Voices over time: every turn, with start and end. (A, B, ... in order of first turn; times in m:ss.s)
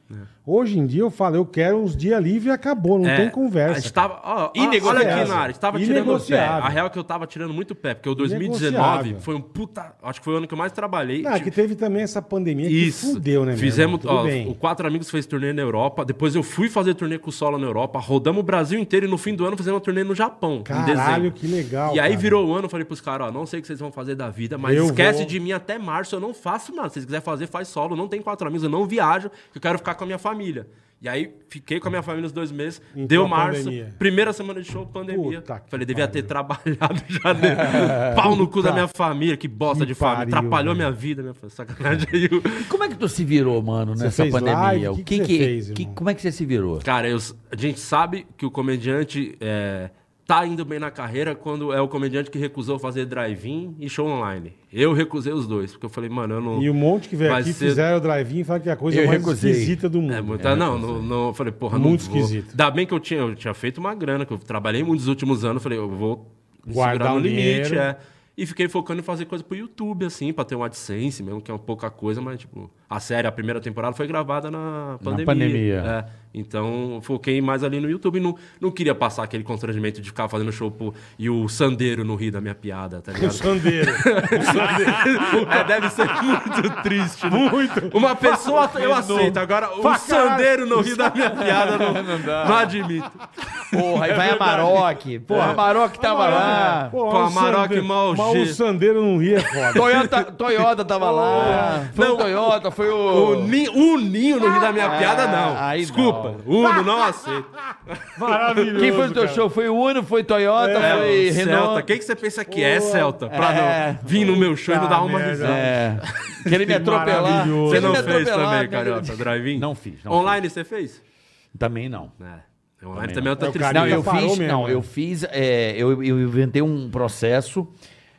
0:00.4-0:04.1 A
0:03.0-0:11.5 B
0:04.6-0:05.5 C
0:04.6-0:06.8 A
0:08.2-0:09.3 A
0:11.2-0:14.6 A
0:12.6-0:21.3 B
0:20.7-0:22.4 A
0:21.9-0:42.7 B
0:24.6-0:25.4 A
0:33.0-0:34.0 A
0:35.1-0:36.3 A
0:37.5-0:38.2 C
0:38.1-0:38.8 A
0:39.7-0:40.9 A
0:42.6-0:46.9 C
0:44.0-0:46.0 A
0:46.8-0:56.7 B
0:56.5-1:00.5 A
0:57.2-0:57.8 B
0:58.9-0:59.8 C
1:00.1-1:33.2 B
1:00.4-1:01.1 C
1:01.7-1:02.6 A
1:06.7-1:07.9 A
1:15.0-1:15.9 C
1:23.2-1:25.9 A
1:27.3-1:31.5 A
1:28.7-1:29.4 C
1:31.4-1:32.7 C
1:33.7-1:37.0 C
1:33.8-1:39.9 A
1:35.3-1:35.6 B
1:36.3-1:38.6 B
1:39.5-1:40.3 B
1:39.7-1:43.6 C
1:41.0-1:42.6 B
1:41.1-1:41.9 A
1:43.1-1:48.8 B
1:44.8-1:46.4 C
1:46.6-1:47.4 A
1:48.2-1:49.5 A
1:48.8-1:51.9 C
1:50.6-1:51.2 A
1:50.8-1:56.4 B
1:52.5-1:53.2 A
1:53.3-1:54.4 C
1:54.1-1:55.7 A
1:55.4-2:00.4 C
1:56.4-1:58.1 A
1:57.2-2:01.0 B
2:01.6-2:02.1 C
2:02.2-2:04.1 B
2:02.9-2:07.7 C
2:03.4-2:04.9 A